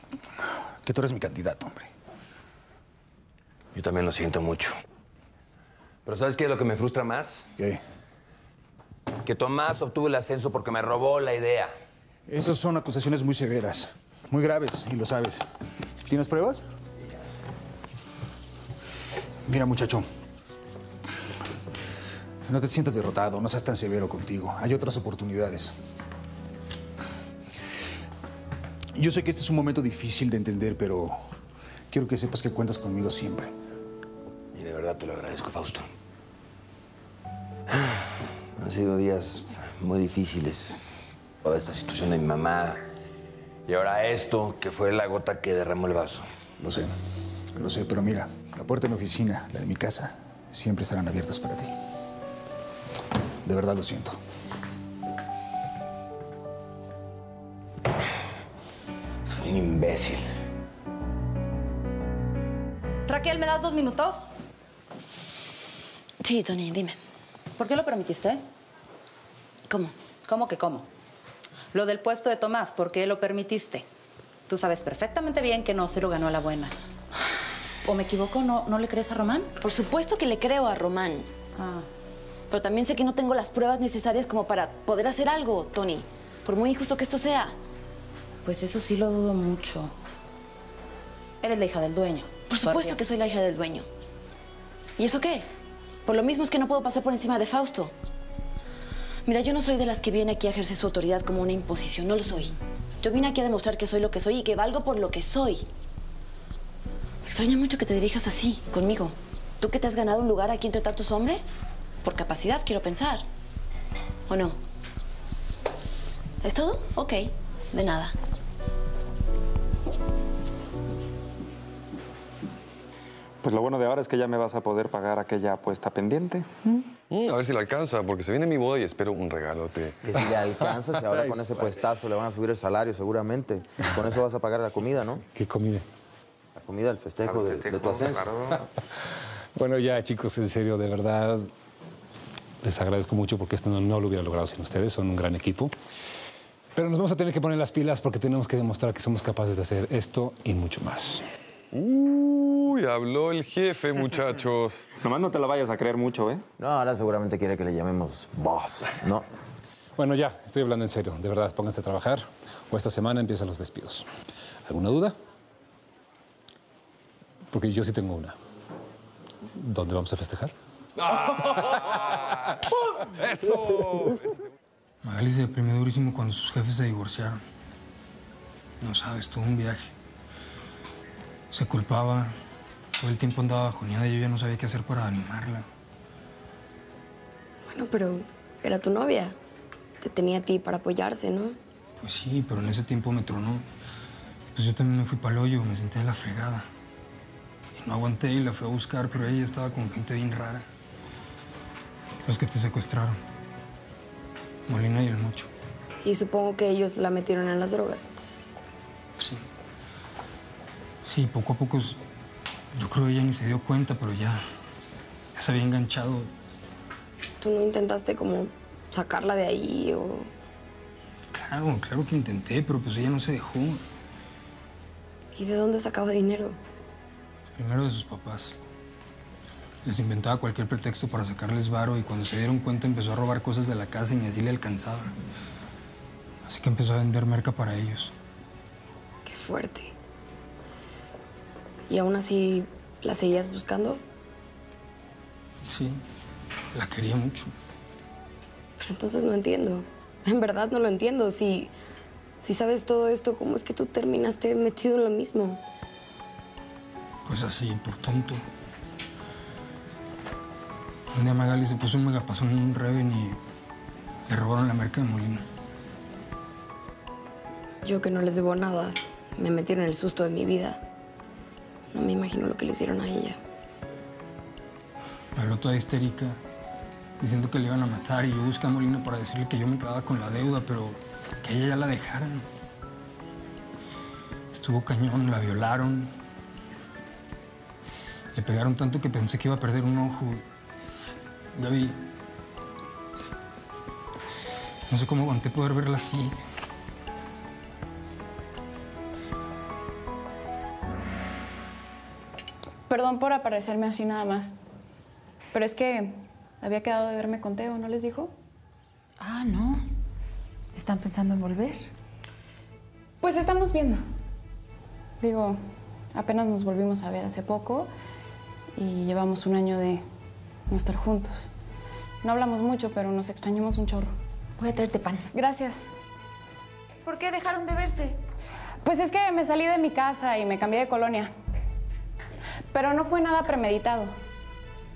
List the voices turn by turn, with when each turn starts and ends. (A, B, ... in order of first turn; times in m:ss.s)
0:00.4-0:01.9 A
0:03.7-0:04.7 B
0:06.1-0:07.5 B
0:09.2-0:11.7 B
0:12.3-0:15.4 A
0:16.1-0:16.6 A
0:19.5-0:20.1 A
0:22.5-0:25.7 A
0:28.9-0:31.2 A
0:31.9-0:33.5 A
0:34.5-0:35.8 B
0:37.7-0:40.8 B
0:41.4-0:42.8 B
0:43.7-0:46.3 B
0:46.6-0:47.0 A
0:47.6-0:51.8 A
0:53.4-0:54.2 A
0:59.2-1:00.2 B
1:03.1-1:04.3 C
1:06.2-1:07.0 D
1:07.6-1:08.4 C
1:09.7-1:09.9 D
1:10.3-1:10.9 C
1:11.7-1:13.9 C
1:14.5-1:16.7 C
1:17.8-1:19.5 C
1:19.6-1:21.3 D
1:21.6-1:21.9 C
1:22.5-1:27.6 D
1:28.4-1:29.9 C
1:31.4-1:33.0 C
1:32.5-1:33.9 D
1:35.0-1:35.5 D
1:36.0-1:37.9 D
1:39.3-1:45.7 D
1:47.2-1:53.2 D
1:54.3-1:54.6 D
1:56.4-1:58.2 D
2:03.4-2:06.5 E
2:07.1-2:10.1 F
2:10.1-2:15.2 G
2:15.3-2:15.8 H
2:16.6-2:18.1 G
2:17.2-2:18.4 B
2:19.6-2:21.5 H
2:22.6-2:25.7 H
2:26.8-2:31.2 H
2:31.7-2:35.0 F
2:35.0-2:36.4 E
2:36.6-2:39.2 G
2:40.0-2:44.1 H
2:44.6-2:45.2 H
2:47.5-2:48.4 H
2:49.5-2:50.5 H
2:55.0-2:57.4 I
2:58.8-2:59.9 I
3:01.5-3:02.4 I
3:03.0-3:05.6 I
3:07.7-3:09.4 J
3:10.0-3:11.6 J
3:12.0-3:13.6 I
3:14.6-3:16.7 I
3:17.8-3:20.6 I
3:22.2-3:23.2 I
3:24.7-3:25.5 I
3:26.0-3:28.1 J
3:29.2-3:29.4 I
3:31.0-3:32.0 I
3:32.7-3:34.4 I
3:35.4-3:36.3 I
3:37.4-3:40.3 J
3:41.3-3:43.8 I
3:45.4-3:46.6 J
3:47.6-3:48.6 I
3:49.8-3:55.2 I
3:56.4-3:58.1 I
3:59.2-3:59.9 J
4:01.9-4:04.0 J
4:05.6-4:06.0 I
4:06.7-4:07.5 I
4:08.8-4:11.7 J
4:12.4-4:15.6 J
4:17.3-4:18.4 I
4:21.1-4:23.4 I
4:24.3-4:25.4 I
4:27.8-4:30.8 J
4:31.9-4:33.4 J
4:35.4-4:36.4 I
4:37.2-4:42.5 I
4:44.5-4:46.2 I
4:48.3-4:50.4 I
4:51.6-4:52.0 I
4:54.9-4:56.4 I
5:02.9-5:04.5 K
5:05.5-5:08.3 K
5:09.2-5:09.9 L
5:10.8-5:11.9 L
5:13.2-5:14.0 K
5:15.2-5:15.6 K
5:16.1-5:17.9 K
5:18.8-5:20.0 K
5:20.7-5:21.5 K
5:22.2-5:24.1 K
5:24.6-5:25.3 L
5:25.3-5:25.8 K
5:27.0-5:28.2 L
5:28.8-5:31.3 K
5:32.7-5:34.1 K